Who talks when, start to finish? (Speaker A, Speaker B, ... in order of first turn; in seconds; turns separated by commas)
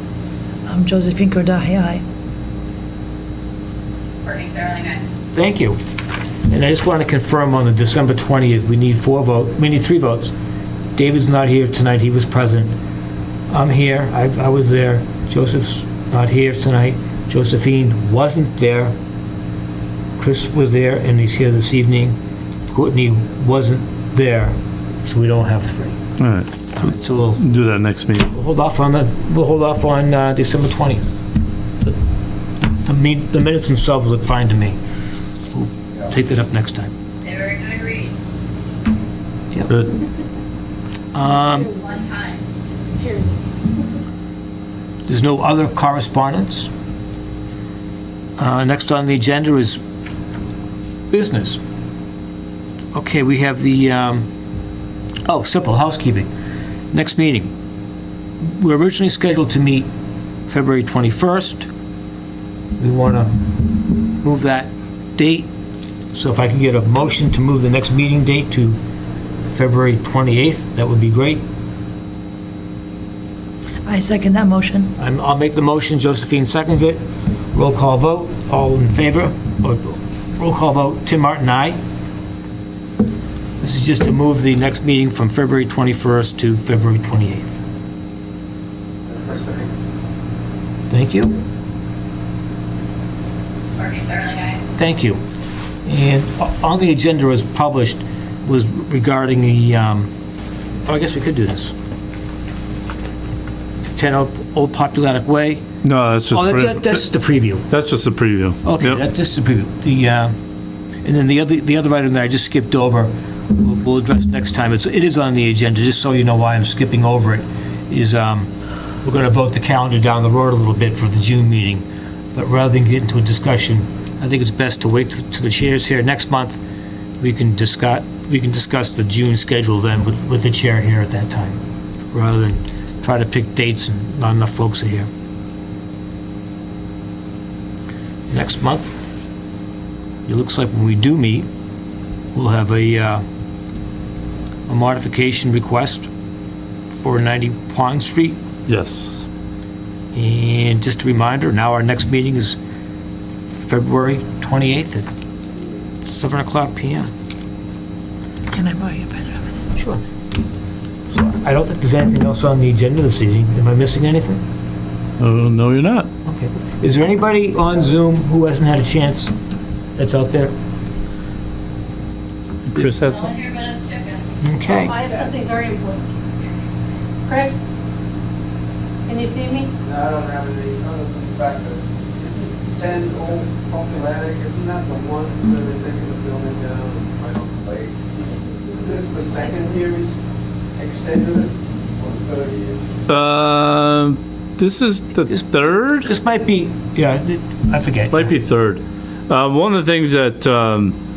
Speaker A: 0.7-2.0, Speaker B: 4.2-5.0, Speaker C: 5.3-5.8, Speaker C: 6.5-10.3, Speaker C: 11.0-12.7, Speaker C: 13.5-18.9, Speaker C: 20.2-22.2, Speaker C: 22.7-26.0, Speaker D: 26.2-26.7, Speaker C: 26.7-27.4, Speaker D: 27.4-28.3, Speaker C: 28.3-31.1, Speaker C: 32.9-34.8, Speaker C: 35.5-36.9, Speaker B: 37.2-38.1, Speaker C: 41.1-41.7, Speaker B: 41.4-42.5, Speaker C: 45.1-46.7, Speaker C: 48.4-49.8, Speaker C: 51.1-51.6, Speaker C: 52.9-54.3, Speaker C: 55.3-56.3, Speaker C: 56.9-57.5, Speaker C: 58.4-59.9, Speaker C: 60.5-61.7, Speaker C: 62.8-65.5, Speaker C: 66.1-68.8, Speaker C: 69.5-71.4, Speaker A: 73.9-74.9, Speaker C: 75.0-77.0, Speaker C: 77.5-81.8, Speaker C: 83.6-87.6, Speaker E: 89.1-89.7, Speaker C: 90.9-91.3, Speaker B: 93.8-94.6, Speaker C: 94.8-95.2, Speaker C: 95.8-100.1, Speaker C: 100.9-101.7, Speaker C: 104.0-105.6, Speaker D: 105.8-106.8, Speaker C: 106.3-107.7, Speaker D: 107.7-109.0, Speaker C: 108.6-110.3, Speaker C: 111.0-118.5, Speaker C: 119.0-126.6, Speaker C: 127.2-131.6, Speaker C: 132.1-135.1, Speaker C: 138.3-139.0, Speaker C: 140.3-141.5, Speaker C: 142.3-143.2, Speaker C: 144.7-146.1, Speaker C: 146.9-148.4, Speaker D: 148.7-149.2, Speaker C: 150.1-152.6, Speaker C: 153.6-155.1, Speaker C: 156.0-157.1, Speaker A: 158.5-159.6, Speaker C: 159.8-160.0, Speaker C: 161.1-164.4, Speaker D: 165.2-166.1, Speaker C: 166.2-169.3, Speaker C: 170.0-170.5, Speaker D: 172.7-173.4, Speaker B: 173.1-174.4, Speaker C: 174.4-174.9, Speaker F: 174.8-176.1, Speaker F: 177.3-177.6, Speaker F: 179.1-179.7, Speaker E: 179.8-190.2, Speaker E: 190.8-192.9, Speaker D: 193.1-196.1, Speaker C: 195.3-198.3, Speaker D: 198.1-201.0